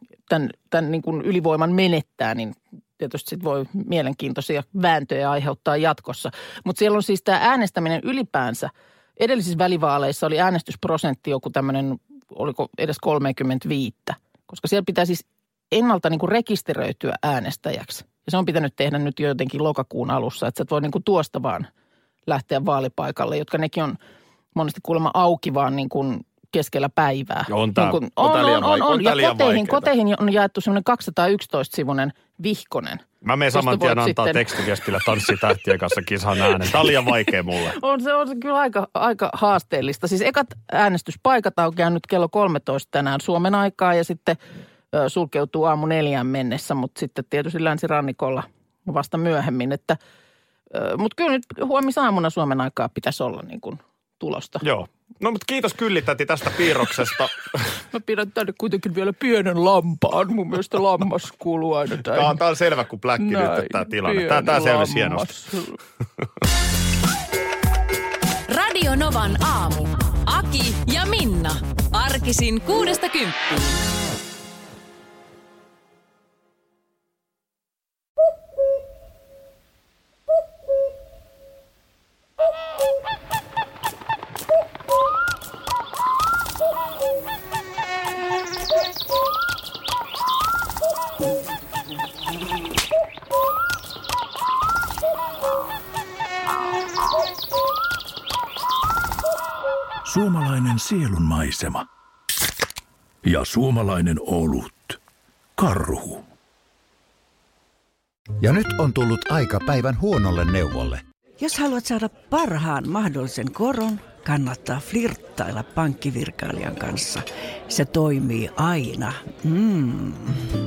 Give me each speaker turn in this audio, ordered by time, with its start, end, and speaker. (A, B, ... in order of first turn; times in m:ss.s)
0:00.3-0:21.7 A
0:22.3-0:24.0 A
0:24.5-0:34.6 A
0:27.5-0:29.9 B
0:33.2-0:37.8 B
0:37.6-0:44.4 A
0:44.9-0:50.0 A
0:50.7-0:54.6 A
0:54.6-0:57.8 B
0:57.9-1:02.4 A
1:02.0-1:05.3 B
1:03.2-1:05.8 A
1:08.5-1:13.8 C
1:40.0-1:41.9 D
1:43.2-1:45.0 D
1:45.6-1:46.2 D
1:48.4-1:51.0 E
1:51.4-2:00.4 F